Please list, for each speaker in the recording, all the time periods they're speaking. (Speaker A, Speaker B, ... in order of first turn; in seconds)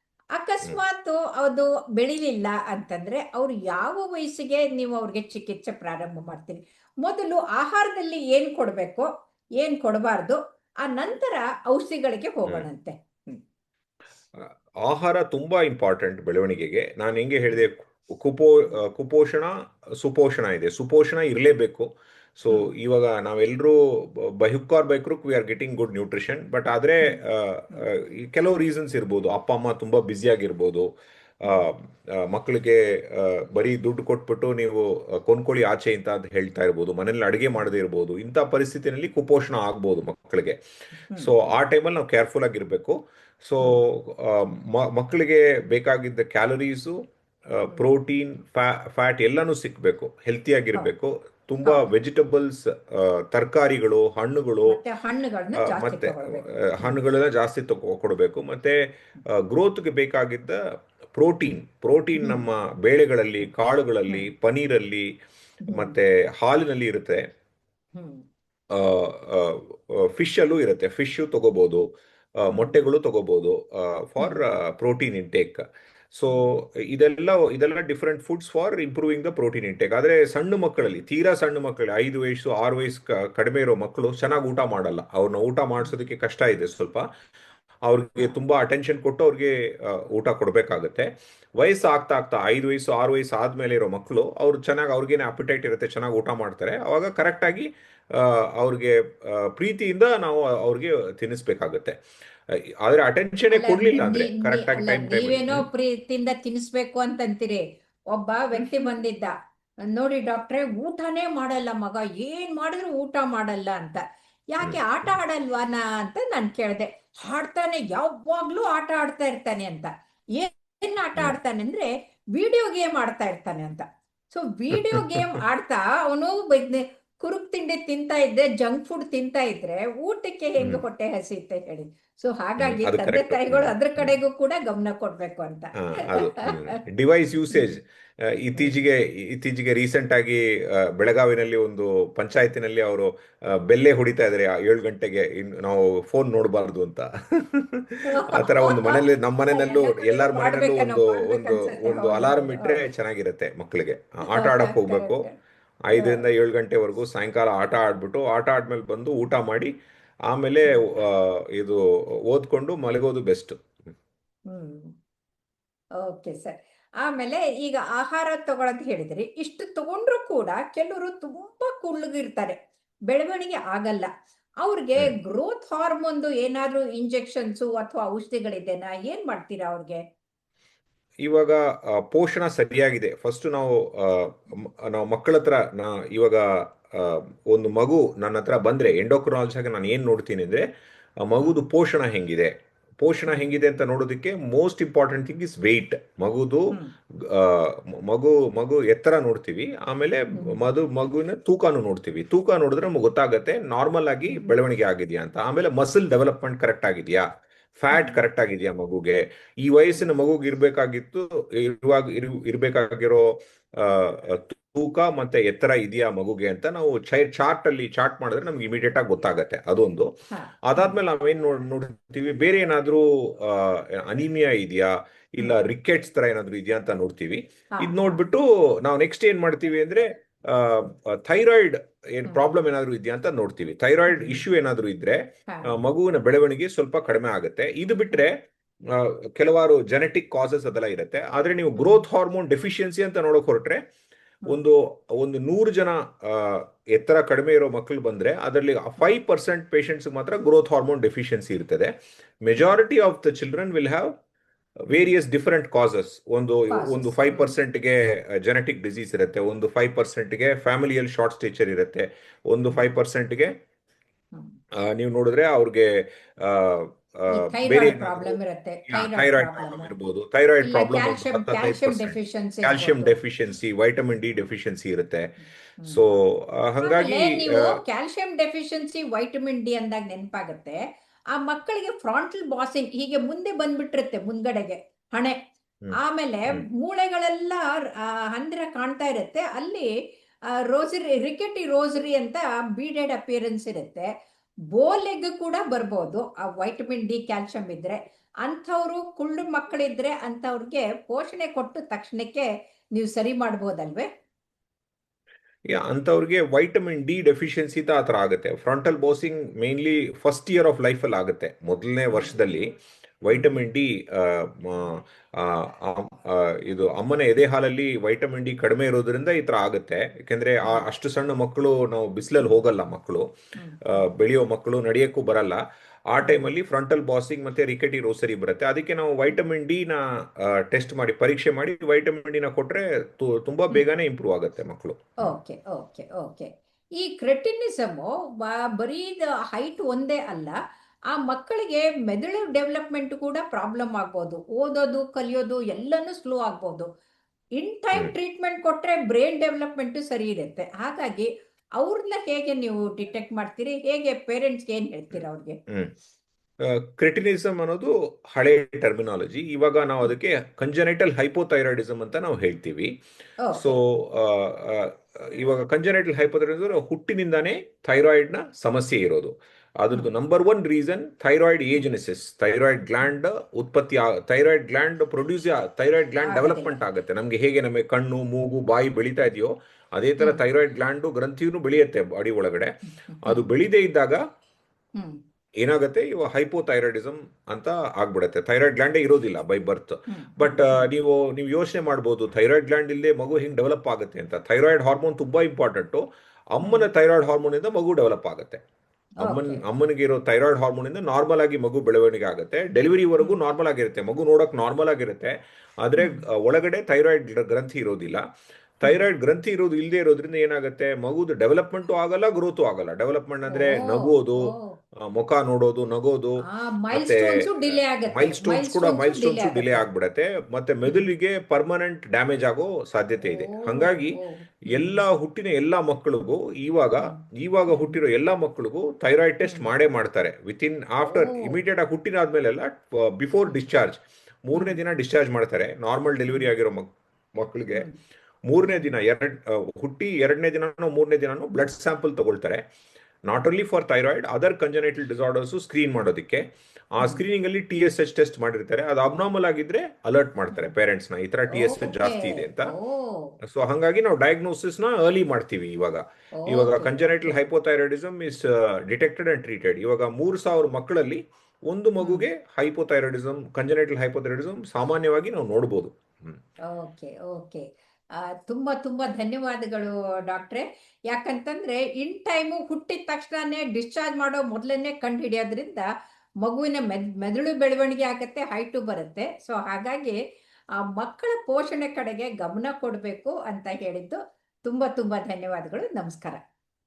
Speaker A: 0.3-9.1, 9.6-13.4, 27.0-27.9, 41.1-41.3, 54.6-57.0, 62.1-62.5, 65.7-65.9, 67.9-68.2, 72.5-72.8, 76.3-76.5, 103.5-109.3, 109.9-136.8, 138.6-138.8, 148.1-152.8, 154.3-155.4, 155.9-156.2, 164.5-164.9, 166.0-172.6, 173.1-174.1, 174.6-180.0, 191.4-191.6, 193.3-193.6, 200.3-200.6, 207.9-208.2, 220.3-221.0, 225.4-225.7, 227.8-228.2, 234.1-234.4, 235.5-235.8, 241.8-242.1, 256.7-257.6, 267.3-269.9, 270.6-273.1, 275.4-276.0, 276.8-280.8, 281.3-285.4, 285.9-289.9, 290.5-294.1, 294.7-304.1, 312.1-312.4, 313.3-313.6, 323.6-324.1, 335.2-340.6, 341.1-346.9, 347.6-355.6, 363.4-363.8, 376.2-376.8, 382.9-383.5, 390.1-390.9, 396.6-396.9, 399.2-399.6, 406.0-406.2, 413.5-414.7, 416.4-419.9, 423.2-425.0, 427.7-428.0, 429.4-429.7, 431.0-431.6, 434.5-434.8, 451.5-453.4, 456.4-457.4, 462.0-462.3, 466.7-475.9, 476.4-480.2, 480.8-486.4
Speaker B: 14.4-30.9, 31.4-40.6, 41.1-54.8, 55.6-60.6, 61.1-65.1, 65.7-67.2, 68.7-87.0, 87.8-102.0, 102.5-105.7, 108.5-108.8, 114.6-115.1, 124.7-125.4, 132.6-134.2, 135.8-155.3, 155.9-159.7, 160.3-163.8, 181.2-190.7, 191.2-207.3, 207.8-220.1, 220.6-243.8, 244.5-251.9, 252.4-254.1, 254.9-263.5, 264.8-275.3, 275.8-277.8, 305.7-312.7, 313.2-323.3, 323.8-335.3, 355.1-355.9, 356.6-362.9, 363.5-384.2, 385.6-396.0, 396.5-398.6, 399.2-408.2, 408.8-437.9, 438.5-442.6, 443.2-452.7, 453.4-466.4